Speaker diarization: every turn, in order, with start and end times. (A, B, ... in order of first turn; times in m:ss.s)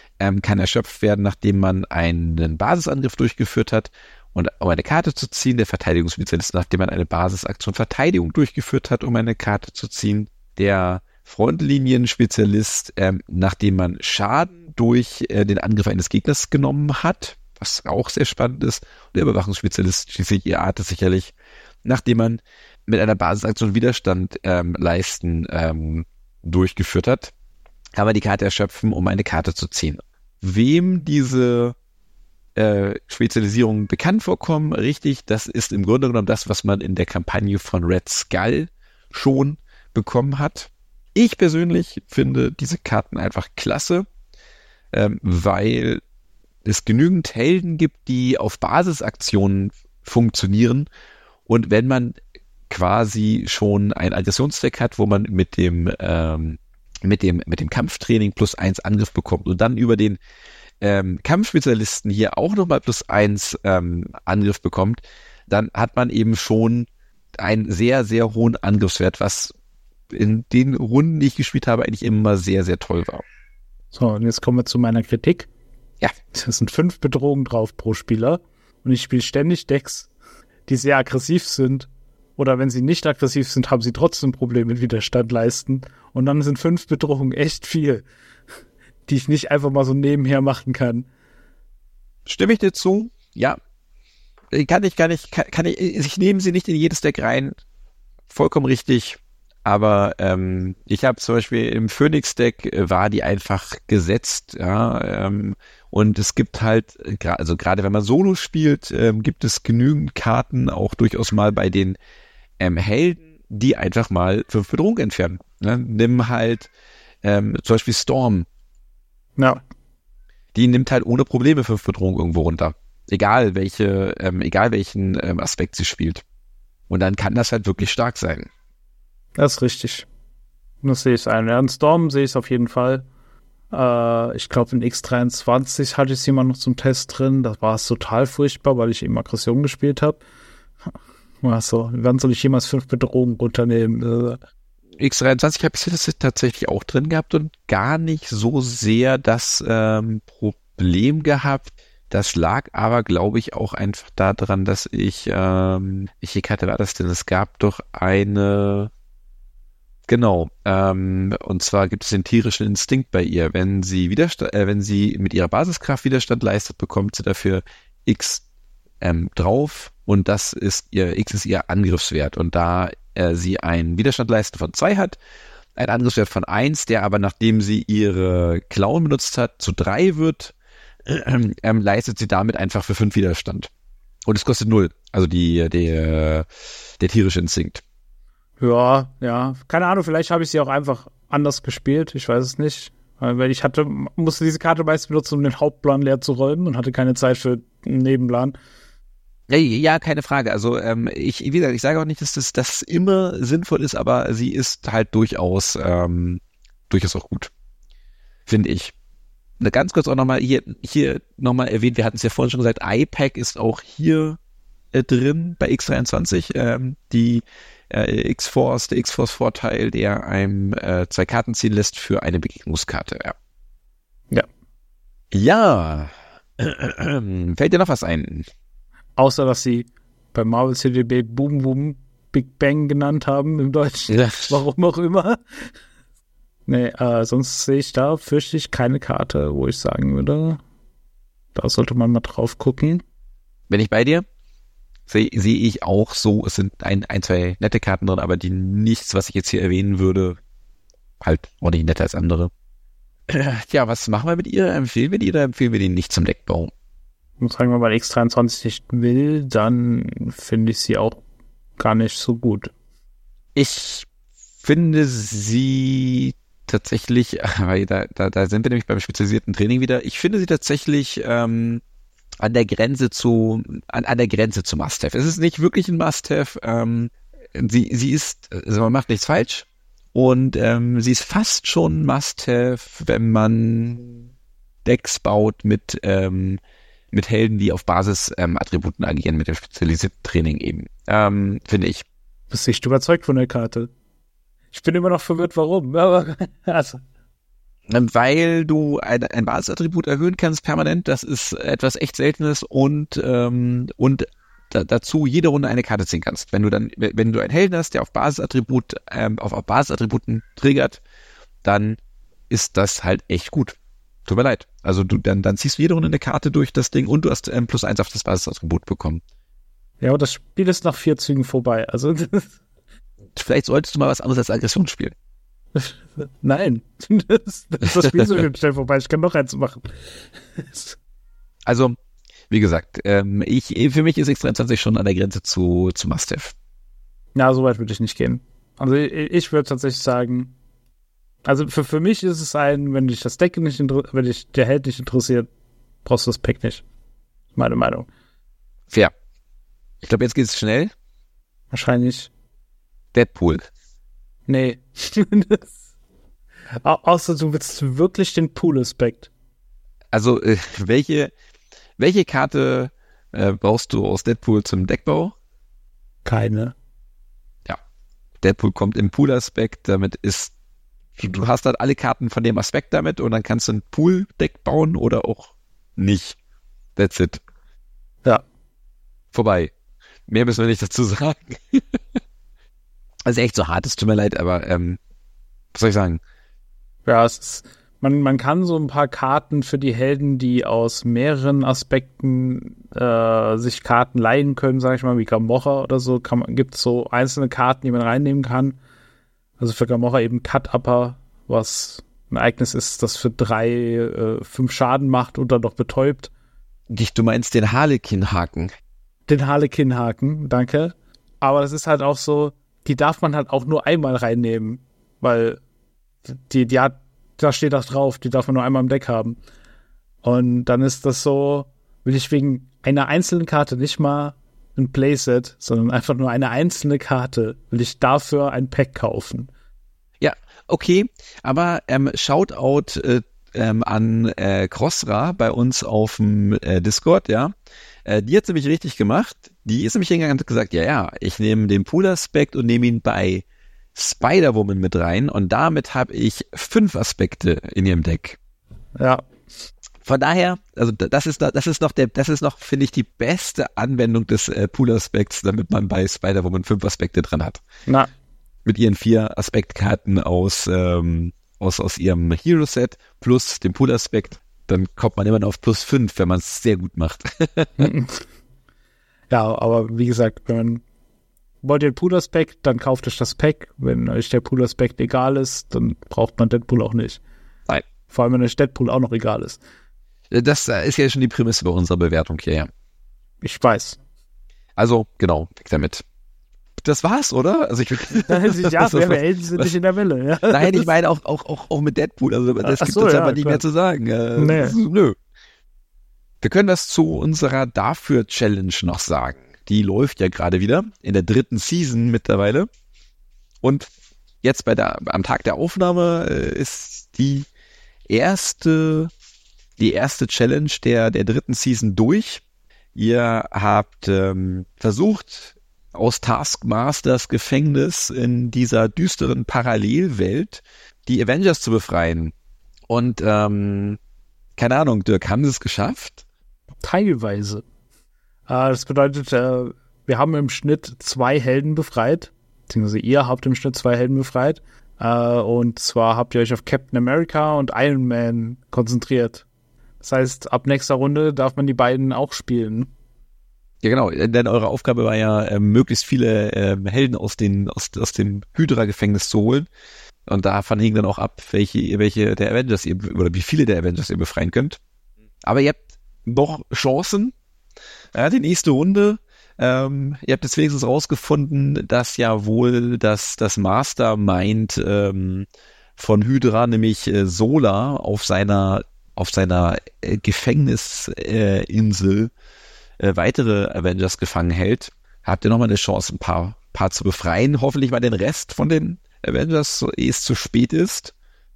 0:00.2-0:27.3 A
0:28.0-0:31.8 A
0:32.6-0:44.0 A
0:44.9-0:46.0 A
0:46.6-0:50.9 A
0:51.5-0:52.2 A
0:52.7-1:00.2 A
1:00.8-1:09.5 A
1:10.1-1:13.2 A
1:13.9-1:15.5 B
1:16.3-1:20.1 B
1:20.7-1:28.0 B
1:29.1-1:31.1 B
1:32.2-1:33.6 A
1:34.5-1:37.6 A
1:38.3-1:52.0 A
1:52.6-1:56.7 A
1:57.2-1:58.5 A
1:59.4-1:59.6 B
2:00.5-2:06.2 A
2:06.9-2:08.5 A
2:09.4-2:10.1 B
2:10.8-2:13.0 B
2:13.7-2:20.2 B
2:21.4-2:24.4 B
2:25.0-2:38.9 A
2:40.1-2:48.4 A
2:49.0-2:55.2 A
2:55.8-3:00.5 A
3:01.0-3:03.7 A
3:04.3-3:06.4 A
3:07.0-3:07.8 A
3:08.6-3:18.6 B
3:19.5-3:27.5 A
3:28.5-3:28.9 A
3:29.6-3:34.4 A
3:34.9-3:43.4 A
3:45.3-3:48.5 A
3:49.2-3:55.4 B
3:54.1-3:54.6 A
3:56.7-4:00.6 B
4:01.6-4:03.0 B
4:03.7-4:04.2 A
4:05.1-4:10.4 A
4:11.2-4:12.5 A
4:13.3-4:16.7 A
4:17.4-4:21.2 B
4:21.8-4:22.7 B
4:23.6-4:24.1 A
4:24.6-4:31.8 A
4:32.4-4:44.2 A
4:44.8-4:46.6 A
4:47.1-4:52.0 A
4:52.5-4:53.9 B
4:54.7-4:57.0 B
4:57.9-5:11.0 A
5:11.6-5:12.0 A
5:12.5-5:19.2 A
5:20.0-5:22.6 B
5:23.3-5:25.1 A
5:25.7-5:31.0 B
5:27.9-5:28.2 A
5:31.6-5:32.0 A
5:32.5-5:36.5 A
5:37.3-5:40.5 B
5:41.4-5:45.5 B
5:46.0-5:46.8 B
5:47.6-5:48.1 B
5:50.0-5:50.9 A
5:51.7-5:52.3 B
5:53.1-5:53.7 A
5:54.5-5:55.7 B
5:56.8-5:59.3 B
6:00.1-6:01.3 A
6:02.0-6:05.3 A
6:06.2-6:06.7 B
6:08.4-6:10.5 A
6:11.2-6:16.4 A
6:17.0-6:17.4 A
6:19.3-6:19.7 A
6:20.3-6:22.0 A
6:23.2-6:25.0 A
6:25.7-6:26.2 A
6:27.0-6:38.8 B
6:39.6-6:46.3 B
6:46.9-6:48.7 A
6:49.3-6:55.6 B
6:56.2-6:59.4 B
7:00.2-7:09.5 B
7:10.2-7:17.5 A
7:18.0-7:23.4 A
7:23.9-7:28.4 A
7:29.0-7:29.2 B
7:30.0-7:37.6 A
7:38.6-7:47.9 A
7:47.8-7:48.2 B
7:49.3-7:50.8 B
7:51.6-7:57.2 B
7:58.1-7:59.6 B
8:00.3-8:02.7 A
8:03.4-8:04.0 B
8:04.8-8:06.0 A
8:06.8-8:09.7 A
8:08.2-8:10.9 B
8:10.5-8:15.2 A
8:12.6-8:13.6 B
8:14.4-8:14.8 B
8:16.4-8:22.7 A
8:23.6-8:23.9 A
8:24.4-8:27.5 A
8:28.1-8:29.1 A
8:29.8-8:32.4 A
8:32.9-8:42.3 A
8:42.9-8:44.0 A
8:44.6-8:46.2 A
8:46.8-8:47.6 B
8:48.5-8:59.4 B
9:00.0-9:02.9 B
9:03.8-9:09.7 A
9:10.3-9:14.8 A
9:15.4-9:17.3 A
9:18.1-9:32.3 A
9:33.0-9:41.1 A